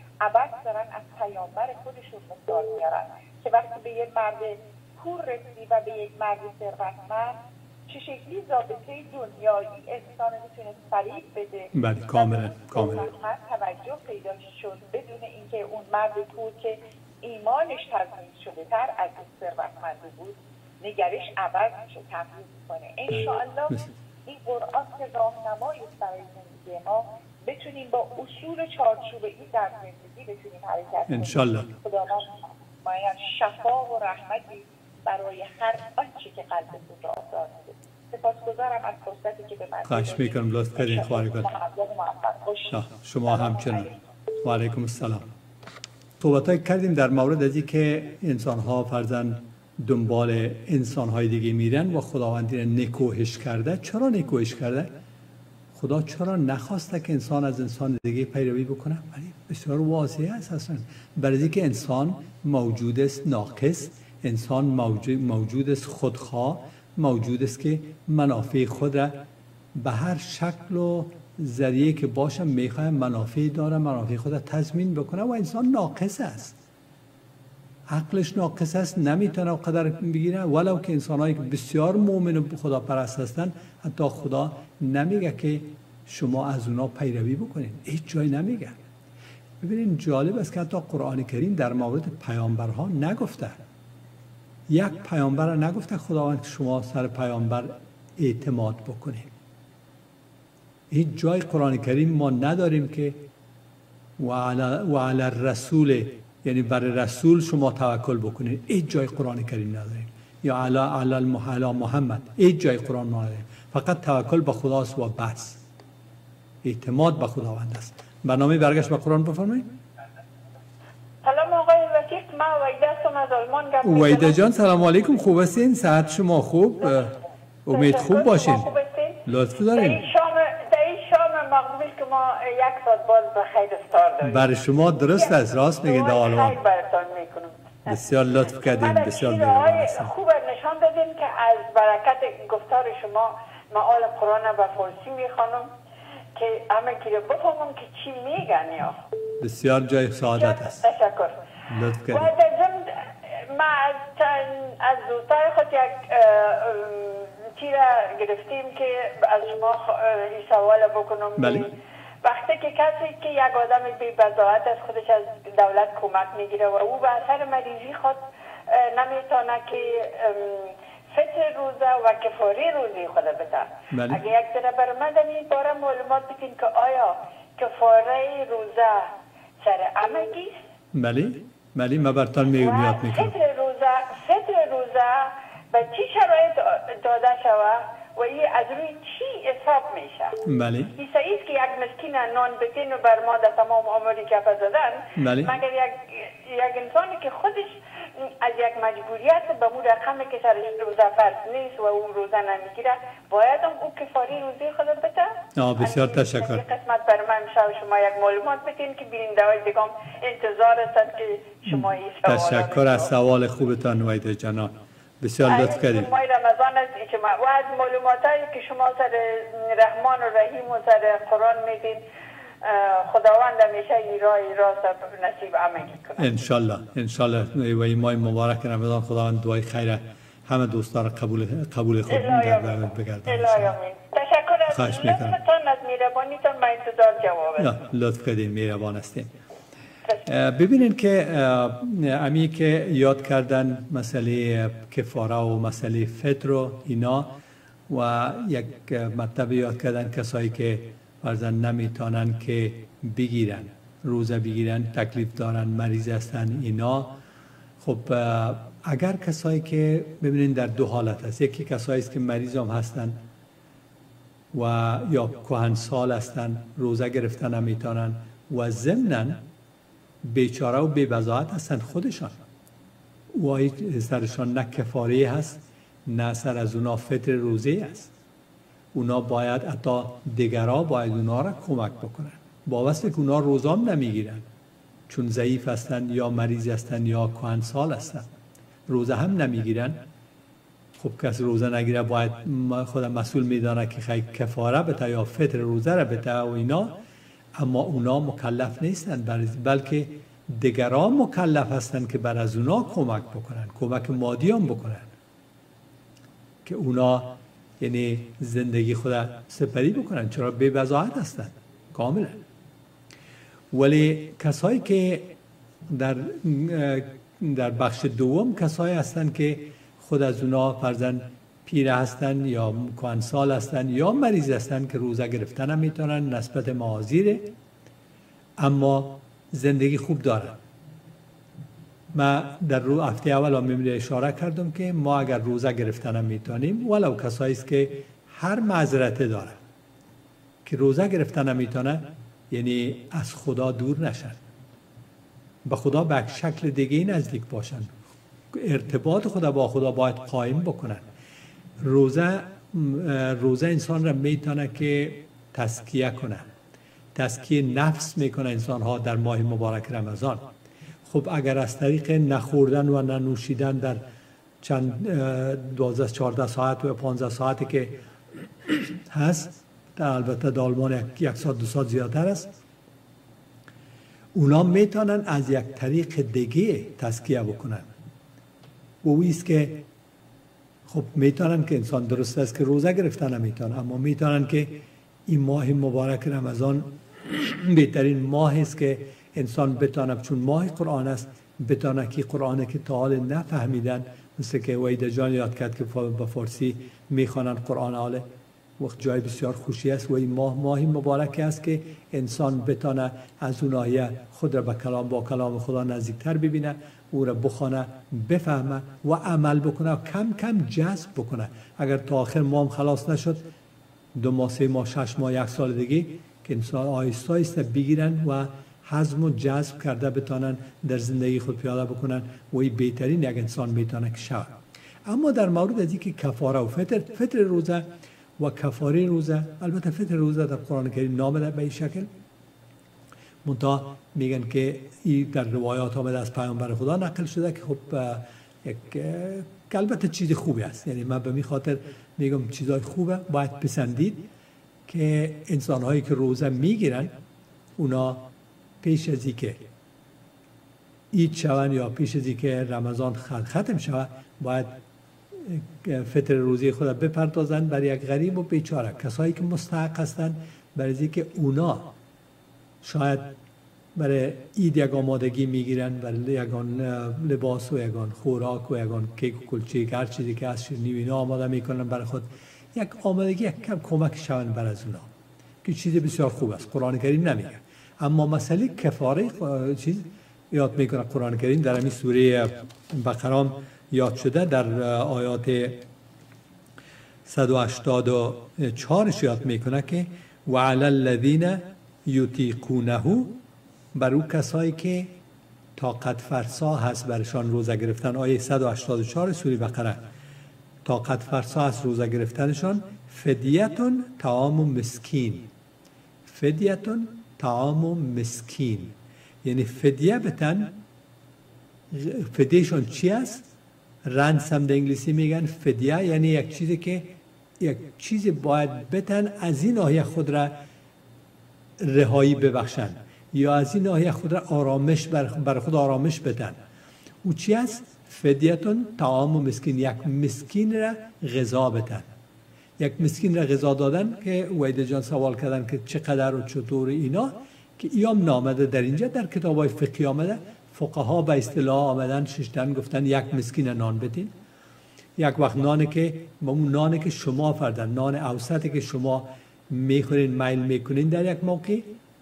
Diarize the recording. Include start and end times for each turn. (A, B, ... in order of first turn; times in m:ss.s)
0:00.2-0:43.9 A
0:11.7-0:13.1 B
0:23.1-0:23.9 B
0:31.1-0:31.7 B
0:39.9-0:41.5 B
0:42.7-0:43.9 B
0:44.4-0:45.3 B
0:46.2-0:54.9 B
0:55.8-1:09.2 B
1:09.7-1:16.6 B
1:17.9-1:28.8 B
1:29.6-1:33.6 B
1:34.7-1:39.3 B
1:40.9-1:43.2 B
1:44.2-1:55.6 B
1:56.6-1:59.7 B
2:01.2-2:04.4 C
2:03.8-2:08.7 B
2:07.7-2:09.2 C
2:09.3-2:10.0 B
2:09.7-2:14.5 C
2:14.2-2:16.6 B
2:15.1-2:25.7 C
2:17.9-2:20.1 B
2:26.4-2:29.0 C
2:29.4-2:30.8 B
2:30.4-2:31.4 C
2:31.7-2:32.3 B
2:32.1-2:41.7 C
2:41.4-2:41.6 B
2:42.2-3:00.6 C
2:53.9-2:54.2 B
3:00.9-3:03.4 B
3:02.5-3:10.4 C
3:10.4-3:10.9 B
3:10.9-3:33.1 C
3:15.2-3:15.6 B
3:25.6-3:26.6 B
3:31.7-3:36.1 B
3:35.4-3:42.0 C
3:42.6-3:46.3 C
3:46.2-3:53.7 B
3:52.1-3:57.7 C
3:54.7-3:55.4 B
3:57.6-3:59.3 B
4:00.3-4:07.3 B
4:07.9-4:17.1 B
4:17.8-4:23.2 B
4:24.5-4:29.4 B
4:30.2-4:32.4 B
4:33.3-4:38.1 B
4:38.9-4:44.4 B
4:45.1-4:48.3 B
4:48.9-4:50.0 B
4:51.0-4:56.9 B
4:57.6-5:05.1 B
5:06.6-5:12.4 B
5:13.7-5:15.4 B
5:15.9-5:27.5 B
5:28.6-5:30.6 B
5:32.1-5:39.6 B
5:40.7-5:44.4 B
5:45.7-5:47.9 B
5:48.5-5:51.0 B
5:51.8-5:56.4 B
5:57.1-6:00.5 B
6:01.1-6:04.0 B
6:04.6-6:08.0 B
6:08.7-6:12.5 B
6:14.4-6:17.9 B
6:19.0-6:19.8 B
6:20.9-6:24.8 B
6:25.3-6:38.2 B
6:38.8-6:53.4 B
6:54.2-7:04.6 B
7:05.1-7:07.9 B
7:08.4-7:12.1 B
7:13.4-7:24.3 B
7:24.9-7:27.1 B
7:27.8-7:28.3 B
7:28.8-7:29.6 B
7:31.1-7:34.8 B
7:35.3-7:41.9 B
7:42.8-7:43.3 B
7:44.0-7:55.1 B
7:55.6-8:05.8 B
8:07.3-8:13.4 B
8:14.0-8:15.1 B
8:15.8-8:20.0 B
8:20.8-8:25.5 B
8:26.3-8:30.7 B
8:31.9-8:33.4 B
8:34.1-8:40.6 B
8:41.8-8:46.6 B
8:47.2-8:52.1 B
8:52.8-9:04.3 B
9:05.2-9:11.9 B